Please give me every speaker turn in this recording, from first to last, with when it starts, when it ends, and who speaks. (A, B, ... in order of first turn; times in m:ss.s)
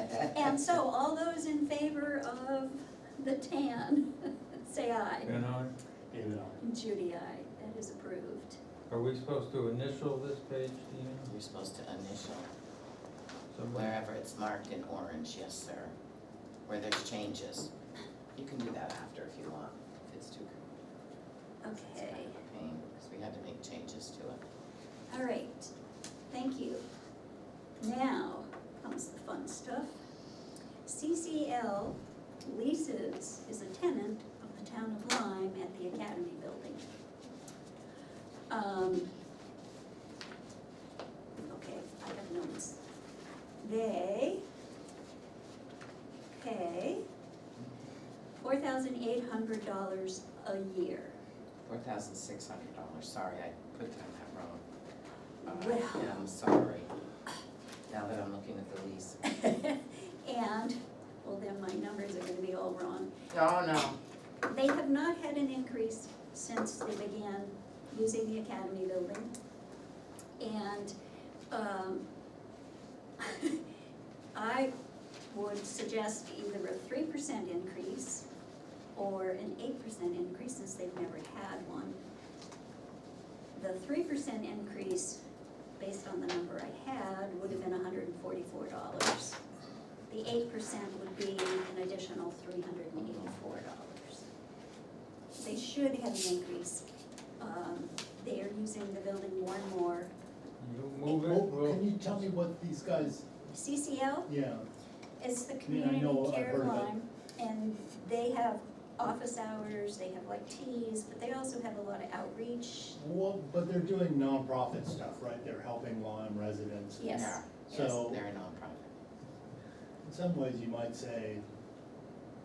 0:00.3-0:05.3 A
0:05.2-0:05.7 B
0:06.1-0:06.6 C
0:06.6-0:08.6 A
0:08.9-0:11.3 B
0:11.2-0:12.5 D
0:13.5-0:14.0 B
0:13.7-0:15.9 D
0:16.7-0:17.7 D
0:18.4-0:20.6 D
0:21.6-0:22.4 A
0:21.7-0:24.4 D
0:25.1-0:25.7 A
0:26.3-0:26.8 A
0:27.8-0:29.9 A
0:30.8-0:36.8 A
0:38.5-0:39.1 A
0:41.4-0:42.8 A
0:43.6-0:44.4 A
0:46.3-0:47.0 A
0:48.4-0:51.2 A
0:51.6-0:54.6 D
0:55.4-0:56.1 A
0:55.4-0:56.9 D
0:57.9-0:59.2 D
0:59.4-1:03.1 A
1:03.3-1:04.0 D
1:04.4-1:09.3 A
1:10.4-1:10.9 A
1:11.5-1:12.0 A
1:13.2-1:13.6 A
1:14.3-1:14.7 A
1:15.3-1:18.2 A
1:19.0-1:22.0 A
1:23.5-1:25.2 A
1:25.8-1:29.4 A
1:30.1-1:34.2 A
1:35.4-1:36.8 A
1:37.4-1:40.1 A
1:40.6-1:42.2 B
1:41.0-1:43.2 C
1:43.5-1:44.3 A
1:44.3-1:44.7 C
1:45.2-1:53.0 A
1:45.6-1:46.9 C
1:53.0-1:58.2 C
1:57.0-1:57.4 A
1:57.1-1:58.9 D
2:00.0-2:01.4 C